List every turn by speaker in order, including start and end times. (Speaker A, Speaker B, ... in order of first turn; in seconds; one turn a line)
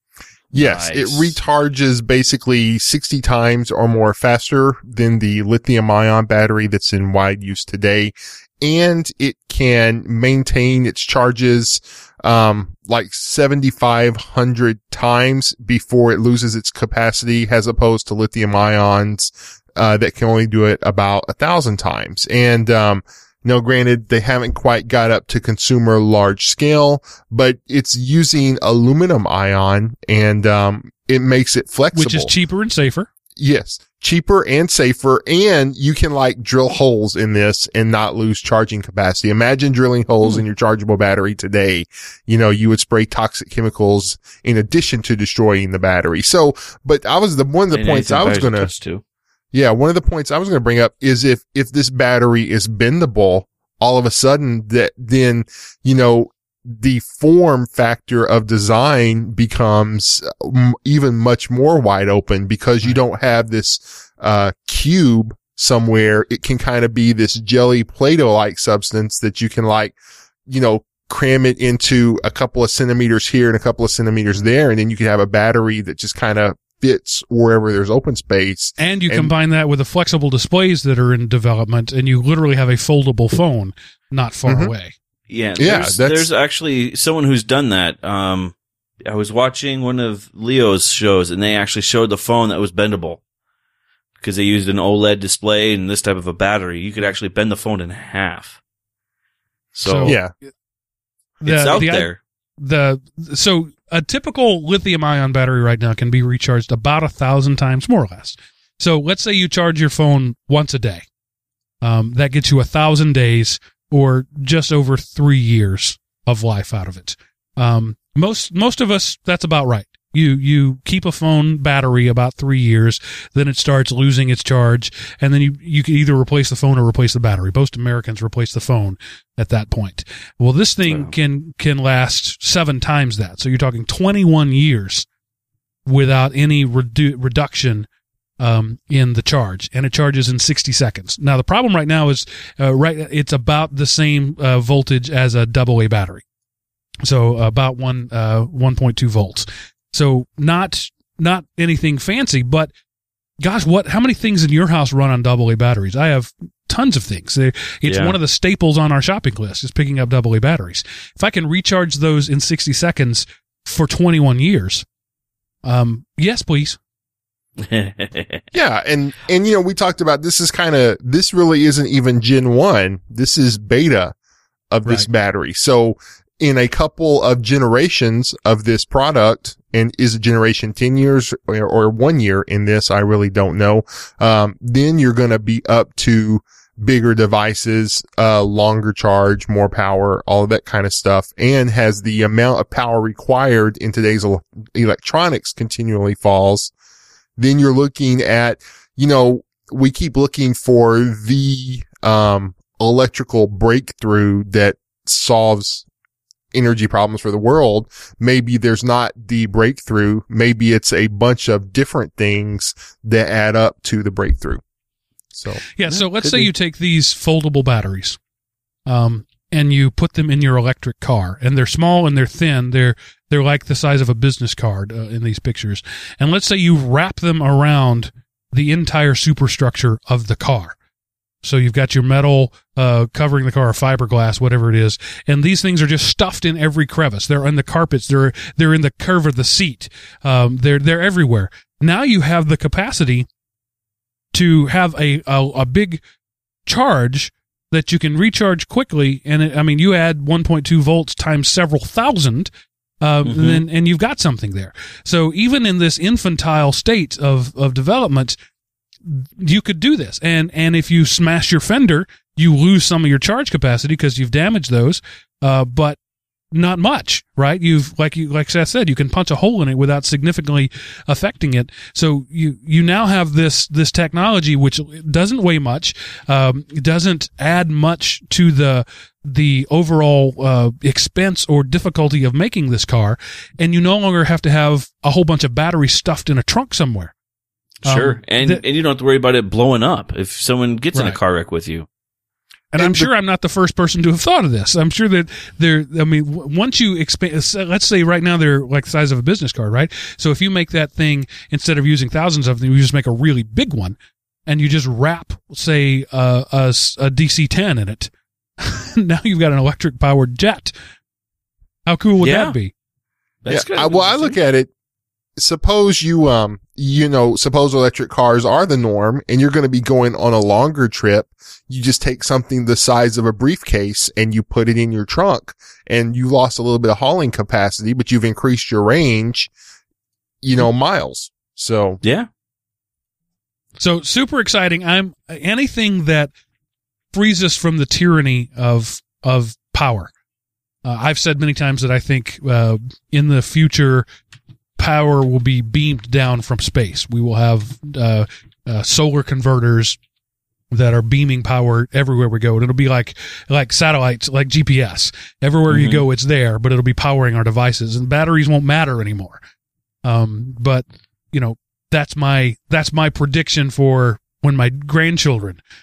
Speaker A: 0.5-32.3
Speaker B: 0.6-1.4
Speaker C: 31.9-33.1
Speaker A: 33.4-48.7
Speaker B: 47.7-49.0
Speaker A: 49.5-70.0
Speaker A: 70.5-79.3
Speaker C: 78.8-85.0
Speaker A: 84.5-84.7
Speaker B: 85.3-88.5
Speaker A: 85.6-86.3
Speaker B: 89.0-93.2
Speaker B: 94.2-98.6
Speaker B: 99.7-100.2
Speaker C: 99.8-100.2
Speaker A: 100.0-100.3
Speaker C: 101.4-111.1
Speaker B: 101.5-102.2
Speaker C: 111.8-135.1
Speaker B: 130.9-131.1
Speaker C: 135.9-137.9
Speaker C: 138.4-146.2
Speaker C: 147.0-152.7
Speaker C: 153.4-164.8
Speaker B: 157.8-158.2
Speaker C: 165.6-166.8
Speaker B: 167.6-168.4
Speaker A: 168.5-174.1
Speaker A: 174.7-196.7
Speaker A: 197.4-205.9
Speaker A: 206.5-214.6
Speaker A: 215.3-215.6
Speaker C: 215.8-218.2
Speaker B: 215.9-216.5
Speaker C: 218.9-230.8
Speaker C: 231.4-243.3
Speaker C: 244.3-246.0
Speaker C: 246.7-252.5
Speaker C: 253.0-258.4
Speaker B: 253.2-253.6
Speaker C: 259.1-266.0
Speaker C: 266.5-287.1
Speaker B: 287.8-291.9
Speaker C: 287.8-288.6
Speaker C: 290.9-291.2
Speaker C: 292.7-310.7
Speaker A: 292.8-293.1
Speaker C: 311.9-312.7
Speaker B: 312.2-312.6
Speaker B: 313.4-314.4
Speaker A: 313.5-314.7
Speaker A: 315.4-329.5
Speaker A: 330.4-332.0
Speaker B: 332.0-332.3
Speaker C: 333.8-336.3
Speaker C: 337.1-340.1
Speaker C: 340.8-344.1
Speaker C: 344.8-350.0
Speaker C: 350.7-359.4
Speaker B: 355.7-356.0
Speaker C: 360.1-365.6